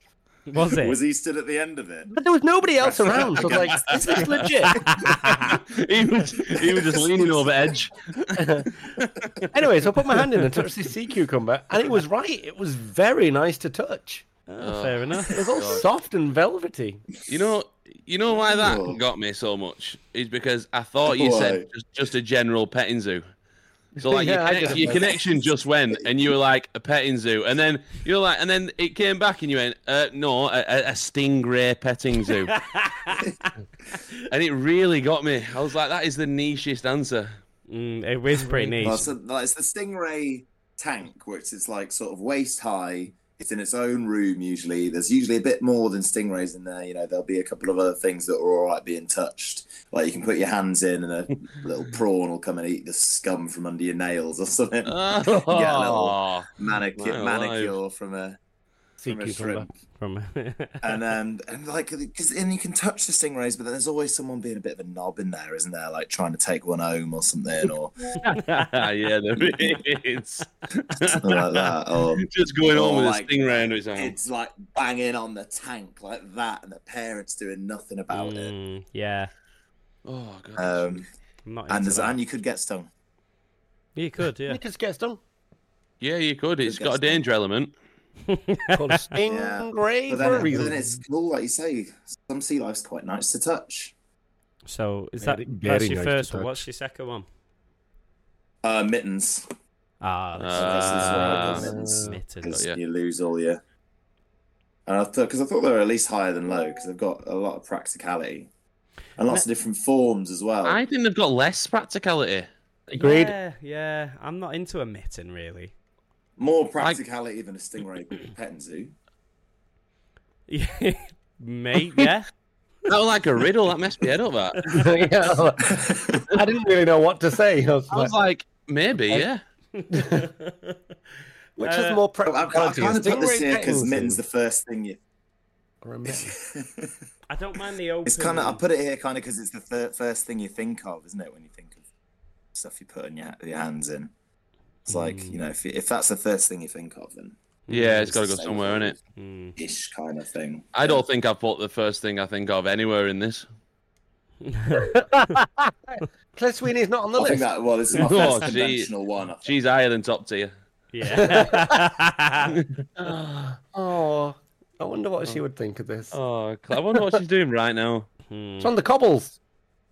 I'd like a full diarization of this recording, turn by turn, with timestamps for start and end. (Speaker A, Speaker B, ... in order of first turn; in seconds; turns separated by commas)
Speaker A: 0.5-1.0, Speaker B: 0.6-2.1, Speaker C: 2.1-5.2, Speaker B: 2.8-5.6, Speaker D: 3.4-4.5, Speaker A: 4.8-5.5, Speaker D: 5.1-9.5, Speaker B: 6.5-7.8, Speaker C: 8.3-8.7, Speaker C: 9.5-14.2, Speaker D: 10.1-10.4, Speaker A: 14.5-15.4, Speaker D: 14.6-15.8, Speaker C: 15.3-17.0, Speaker D: 17.3-23.2, Speaker B: 18.3-19.0, Speaker B: 21.1-21.6, Speaker D: 24.0-32.6, Speaker C: 24.0-25.1, Speaker B: 24.6-26.3, Speaker D: 34.2-37.3, Speaker A: 37.7-39.1, Speaker C: 38.4-38.8, Speaker B: 38.8-58.4, Speaker D: 54.9-57.8, Speaker C: 59.0-59.7, Speaker B: 59.1-59.7, Speaker A: 60.0-60.9, Speaker B: 60.8-67.9, Speaker D: 68.1-74.2, Speaker B: 71.1-78.5, Speaker A: 78.1-79.3, Speaker D: 80.0-81.0, Speaker B: 80.6-81.0, Speaker A: 81.4-82.2, Speaker B: 81.7-82.9, Speaker A: 84.0-84.6, Speaker C: 84.5-85.2, Speaker D: 86.0-87.7, Speaker B: 86.6-87.2, Speaker A: 88.3-89.1, Speaker C: 88.7-90.8, Speaker B: 89.2-93.9, Speaker A: 94.7-97.2, Speaker C: 95.2-96.5, Speaker B: 98.6-99.5, Speaker A: 100.0-102.5, Speaker D: 100.4-101.7, Speaker B: 100.5-103.6, Speaker C: 101.5-102.2, Speaker D: 102.5-102.8, Speaker B: 104.8-108.5, Speaker B: 109.2-110.8, Speaker D: 110.6-112.5, Speaker C: 112.9-113.3, Speaker A: 113.0-115.7, Speaker B: 116.4-118.9, Speaker A: 120.5-122.3, Speaker D: 122.8-124.8, Speaker C: 124.7-128.1, Speaker B: 125.6-126.3, Speaker D: 127.9-129.4, Speaker A: 129.7-130.8, Speaker C: 129.9-130.3, Speaker C: 131.6-134.2, Speaker A: 131.6-132.0, Speaker B: 132.2-135.0, Speaker C: 135.8-136.3, Speaker B: 136.1-136.9, Speaker A: 137.3-138.6, Speaker B: 138.0-141.8, Speaker B: 142.5-144.1, Speaker A: 144.9-145.4, Speaker B: 144.9-147.3, Speaker A: 147.7-148.1, Speaker D: 147.7-148.9, Speaker B: 148.1-149.0, Speaker A: 149.2-149.6, Speaker B: 149.6-151.0, Speaker D: 150.7-153.5, Speaker A: 154.4-154.9, Speaker C: 154.9-157.5, Speaker B: 157.2-159.5, Speaker D: 157.9-158.9, Speaker D: 159.4-160.5, Speaker A: 160.9-162.6, Speaker C: 161.1-161.9, Speaker C: 163.0-166.1, Speaker D: 166.1-168.1, Speaker C: 166.9-167.2, Speaker A: 168.3-168.7, Speaker C: 168.6-169.4